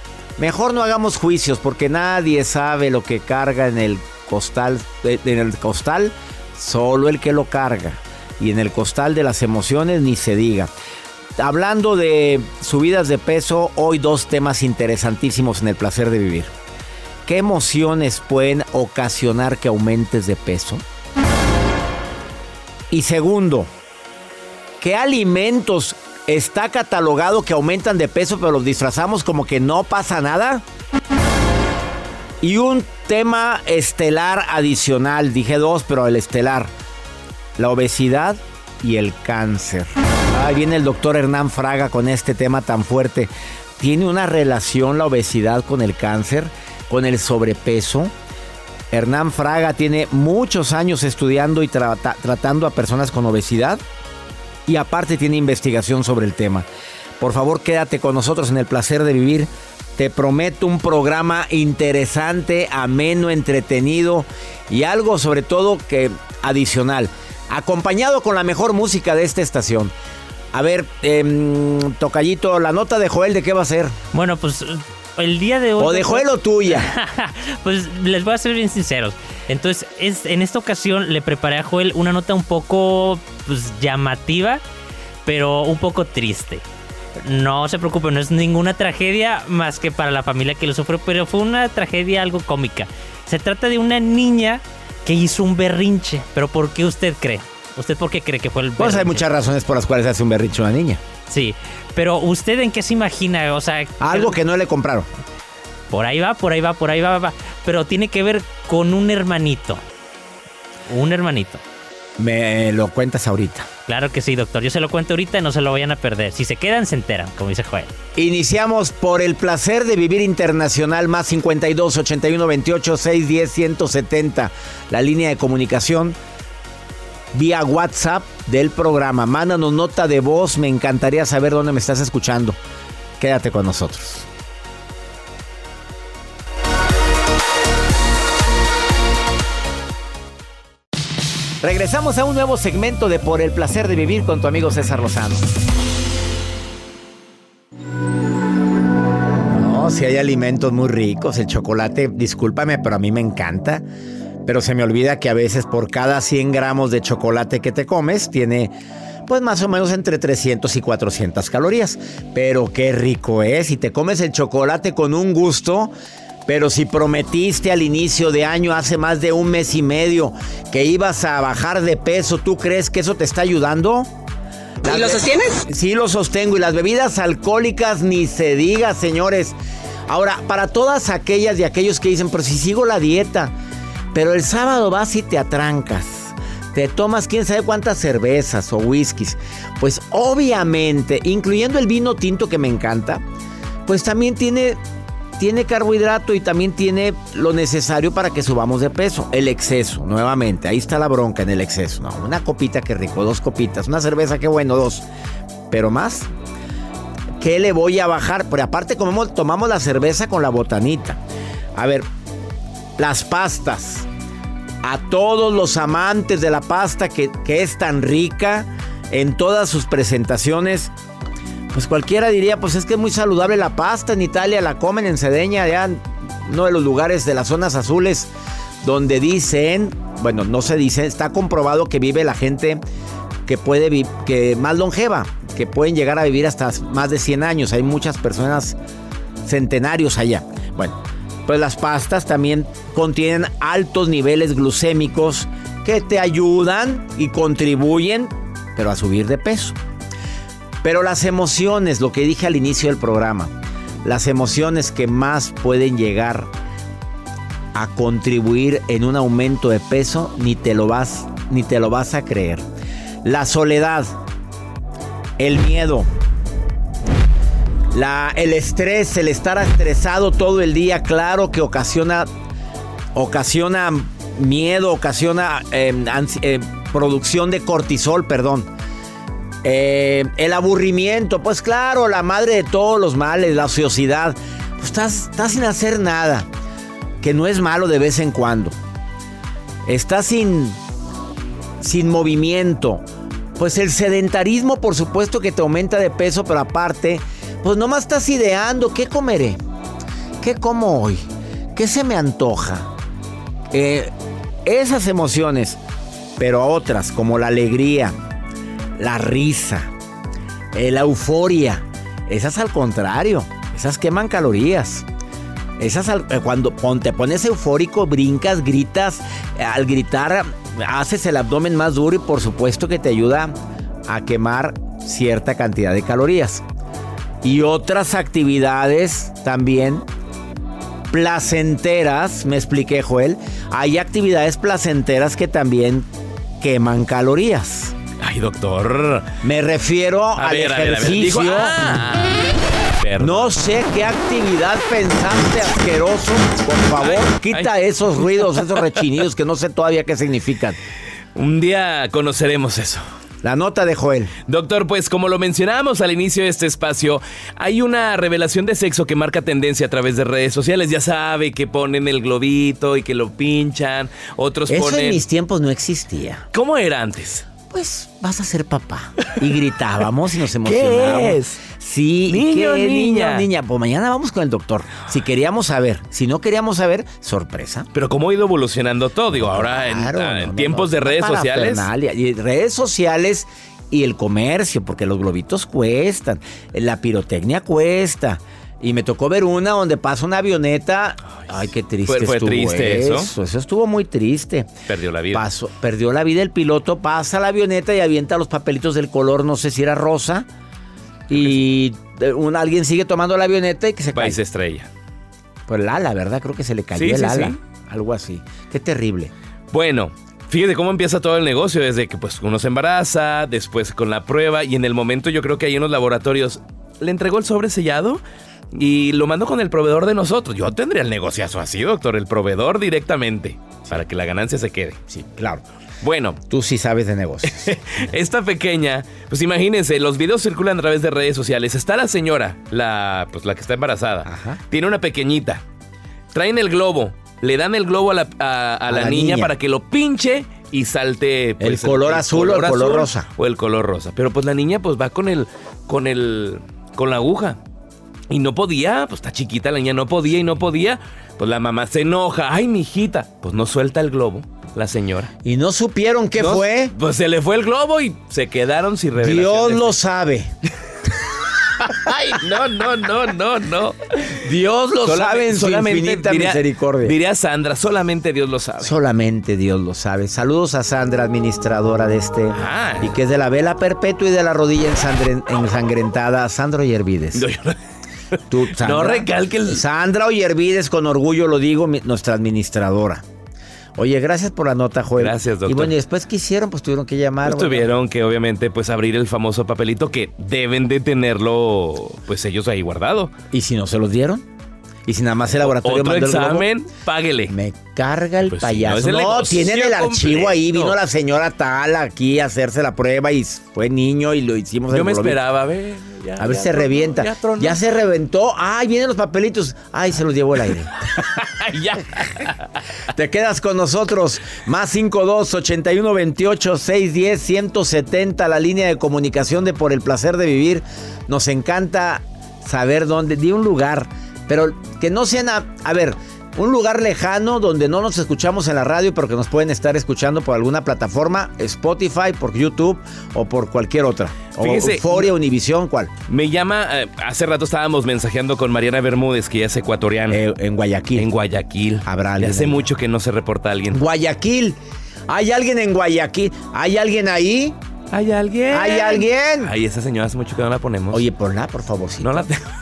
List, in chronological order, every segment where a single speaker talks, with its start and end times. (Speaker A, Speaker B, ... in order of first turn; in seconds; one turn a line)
Speaker A: 0.4-10.7
Speaker A: 11.4-16.5
Speaker A: 17.3-20.8
Speaker A: 22.9-23.7
Speaker A: 24.8-30.6
Speaker A: 32.4-36.7
Speaker A: 37.6-48.1
Speaker A: 48.9-53.8
Speaker A: 54.7-56.7
Speaker A: 57.2-69.9
Speaker A: 70.5-74.0
Speaker B: 74.1-84.6
Speaker A: 75.8-76.9
Speaker B: 85.3-86.6
Speaker B: 87.2-99.3
Speaker A: 98.8-101.0
Speaker B: 101.3-104.4
Speaker A: 104.0-105.1
Speaker B: 105.9-109.8
Speaker B: 110.9-111.6
Speaker A: 112.2-113.7
Speaker B: 113.9-117.9
Speaker A: 118.2-126.2
Speaker A: 127.3-132.6
Speaker A: 133.2-134.3
Speaker A: 141.6-145.6
Speaker A: 149.5-153.8
Speaker A: 154.5-158.7
Speaker A: 159.3-165.9
Speaker A: 166.5-174.1
Speaker A: 174.8-179.6
Speaker A: 180.1-183.5
Speaker A: 184.1-193.2
Speaker A: 193.9-194.8
Speaker A: 195.4-205.1
Speaker A: 205.7-206.3
Speaker A: 207.4-211.2
Speaker A: 211.8-212.1
Speaker A: 213.0-214.1
Speaker A: 214.8-220.9
Speaker A: 221.7-228.3
Speaker A: 228.8-232.8
Speaker A: 233.5-238.8
Speaker A: 239.4-249.8
Speaker A: 250.8-256.5
Speaker A: 257.7-262.6
Speaker A: 263.2-264.1
Speaker A: 265.4-266.1
Speaker A: 267.9-272.3
Speaker A: 273.1-278.7
Speaker A: 279.6-286.5
Speaker A: 287.2-288.8
Speaker A: 289.9-290.8
Speaker A: 291.8-293.0
Speaker A: 293.6-299.6
Speaker A: 300.4-301.2
Speaker A: 301.8-302.9
Speaker A: 303.7-304.1
Speaker A: 304.6-305.8
Speaker A: 306.4-308.1
Speaker A: 309.0-309.9
Speaker A: 310.7-315.1
Speaker A: 315.8-323.5
Speaker A: 324.1-326.6
Speaker A: 327.4-330.1
Speaker A: 331.1-336.1
Speaker A: 336.6-337.9
Speaker C: 338.2-339.3
Speaker A: 339.4-341.8
Speaker C: 340.4-342.4
Speaker C: 343.0-343.5
Speaker A: 343.2-350.8
Speaker C: 347.0-347.7
Speaker C: 348.4-348.9
Speaker C: 351.4-353.0
Speaker A: 353.4-354.3
Speaker C: 354.5-365.2
Speaker A: 364.7-366.4
Speaker C: 366.5-367.5
Speaker A: 367.7-377.9
Speaker C: 370.6-371.6
Speaker C: 372.3-373.4
Speaker C: 377.9-381.9
Speaker A: 379.4-394.7
Speaker C: 392.1-393.3
Speaker C: 394.9-395.5
Speaker A: 395.3-400.5
Speaker A: 401.3-404.4
Speaker C: 401.3-401.6
Speaker C: 404.1-404.9
Speaker A: 405.7-409.3
Speaker C: 407.0-407.6
Speaker C: 409.7-418.2
Speaker C: 418.8-425.0
Speaker A: 425.1-425.6
Speaker C: 426.0-426.4
Speaker A: 426.5-427.7
Speaker C: 427.5-435.6
Speaker A: 434.2-434.6
Speaker C: 436.3-447.6
Speaker A: 438.9-439.5
Speaker A: 441.6-443.3
Speaker C: 448.3-455.3
Speaker A: 455.4-456.9
Speaker C: 456.4-459.9
Speaker A: 459.2-460.5
Speaker C: 461.8-464.0
Speaker A: 464.4-467.2
Speaker C: 465.0-468.9
Speaker A: 468.8-477.4
Speaker C: 472.6-473.2
Speaker C: 477.3-477.8
Speaker A: 478.5-483.2
Speaker C: 478.7-479.8
Speaker A: 484.0-487.9
Speaker C: 485.2-485.9
Speaker C: 487.4-493.3
Speaker A: 493.5-494.4
Speaker A: 495.1-496.7
Speaker C: 495.6-497.5
Speaker A: 497.5-505.4
Speaker C: 498.5-501.0
Speaker C: 504.9-507.8
Speaker A: 506.4-510.9
Speaker C: 511.2-512.6
Speaker A: 513.1-536.1
Speaker C: 534.5-535.3
Speaker C: 536.3-540.5
Speaker A: 540.3-541.3
Speaker C: 541.2-544.0
Speaker A: 542.0-542.9
Speaker A: 543.9-547.8
Speaker C: 548.1-551.2
Speaker A: 548.7-549.7
Speaker A: 551.1-552.5
Speaker C: 552.2-552.6